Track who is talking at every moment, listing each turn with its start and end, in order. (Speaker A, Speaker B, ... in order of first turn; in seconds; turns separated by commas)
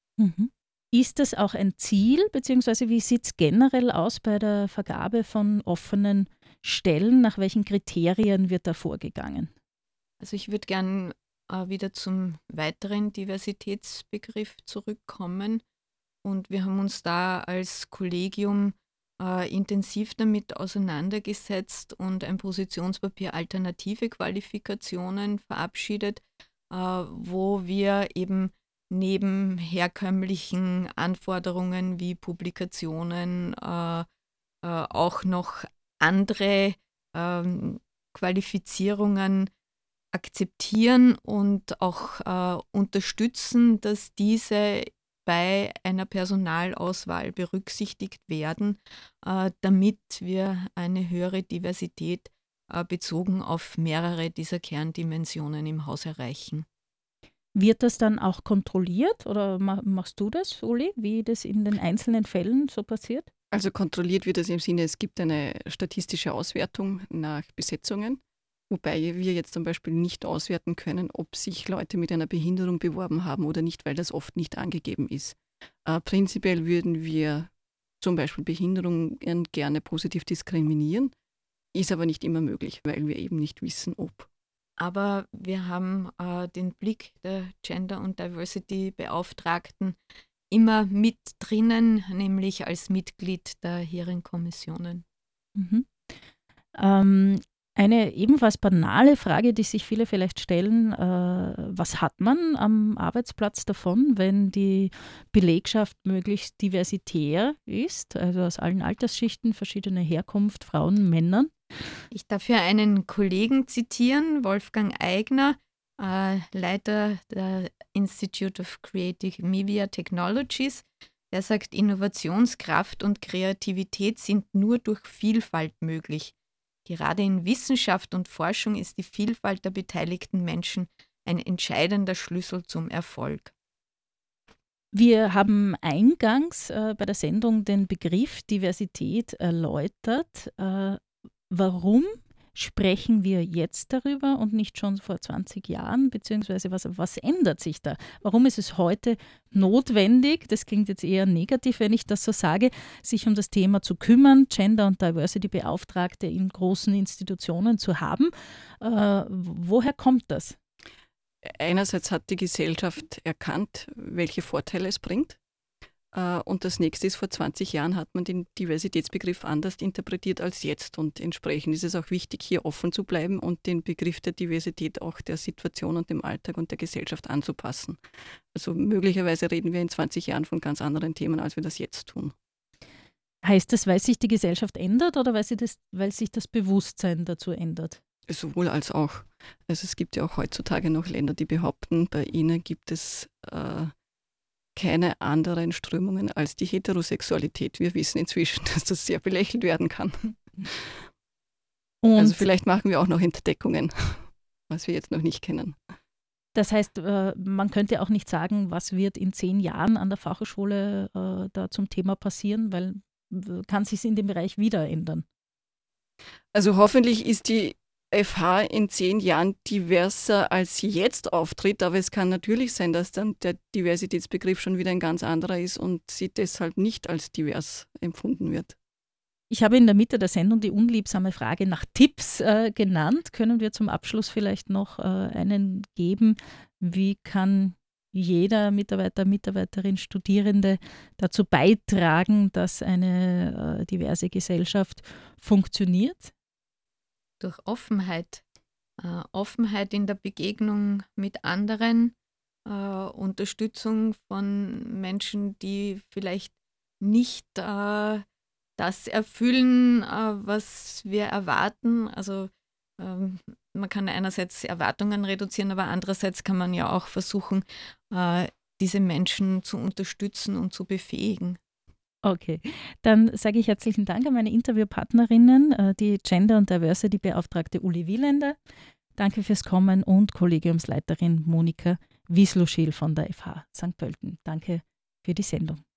Speaker A: 0.2-9.5, Speaker B: 10.2-15.6, Speaker B: 16.2-34.1, Speaker B: 34.6-39.5, Speaker B: 40.1-56.7, Speaker A: 57.5-63.3, Speaker C: 63.5-81.1, Speaker C: 81.7-84.3, Speaker B: 84.8-90.0, Speaker B: 90.5-95.0, Speaker A: 95.6-95.9, Speaker A: 96.8-111.5, Speaker B: 112.1-126.3, Speaker B: 126.9-133.5, Speaker A: 134.9-160.6, Speaker C: 161.4-165.4, Speaker C: 166.1-178.0, Speaker C: 178.5-182.3, Speaker A: 183.4-188.0, Speaker C: 188.3-193.9, Speaker C: 194.8-200.9, Speaker A: 202.0-202.4, Speaker C: 202.2-205.8, Speaker A: 206.6-215.2, Speaker C: 216.5-228.8, Speaker A: 229.5-246.3, Speaker B: 247.4-248.4, Speaker B: 249.0-252.2, Speaker B: 252.7-258.2, Speaker B: 258.8-271.6, Speaker A: 272.2-278.6, Speaker A: 279.2-285.8